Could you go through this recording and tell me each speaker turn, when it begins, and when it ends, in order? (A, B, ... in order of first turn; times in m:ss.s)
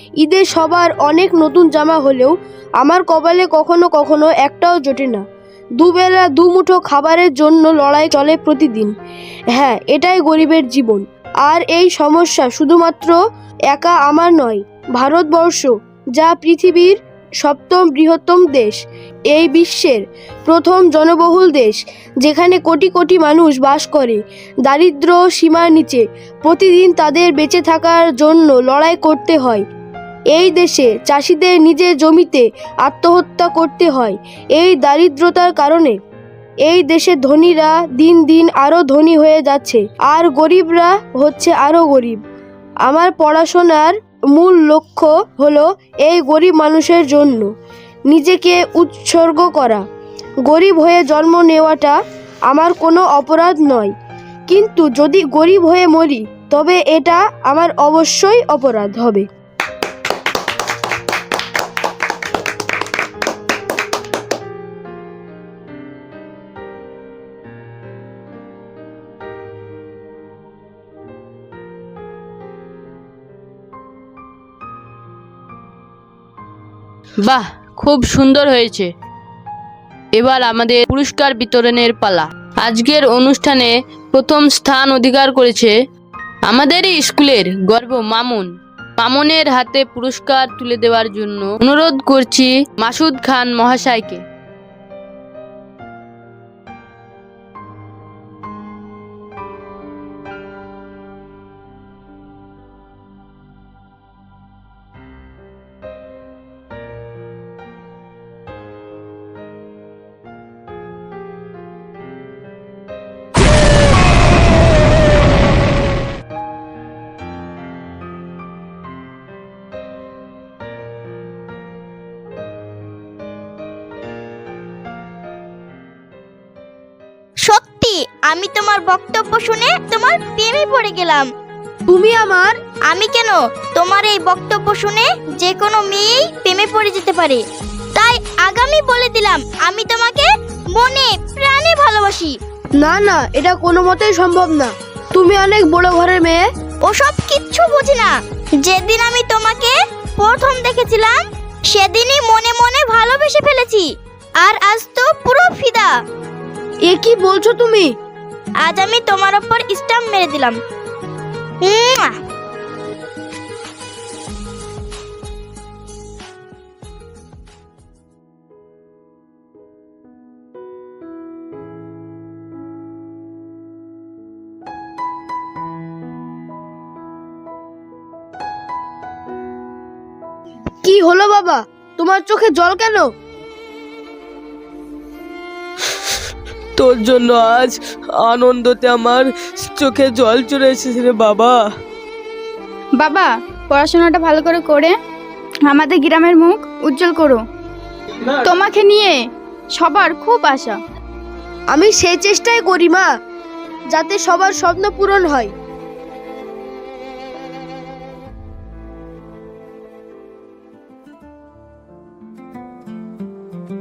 0:00.2-0:05.2 A
0:05.8-0:08.9 A
0:09.5-0:13.2 A
0:13.7-0:18.8 A
0:19.3-0:29.6 A
0:30.3-0:36.0 A
0:36.7-0:42.2 A
0:42.8-0:47.5 A
0:48.1-0:49.8 A
0:50.5-0:52.0 A
0:52.5-0:53.9 A
0:54.5-0:59.2 A
1:17.2-1:18.9 B
1:20.2-1:25.7 B
1:26.5-1:34.2 B
2:07.4-2:11.3 C
2:11.9-2:12.6 A
2:12.9-2:17.4 C
2:18.0-2:22.4 C
2:22.8-2:26.4 A
2:26.9-2:28.1 C
2:28.6-2:33.8 C
2:34.4-2:35.9 C
2:36.9-2:37.9 A
2:38.6-2:40.6 C
2:41.6-2:42.1 C
3:00.8-3:03.0 A
3:06.8-3:11.7 D
3:13.0-3:15.0 E
3:15.7-3:17.4 E
3:18.4-3:19.2 E
3:19.7-3:20.8 E
3:21.7-3:23.1 A
3:23.9-3:25.5 A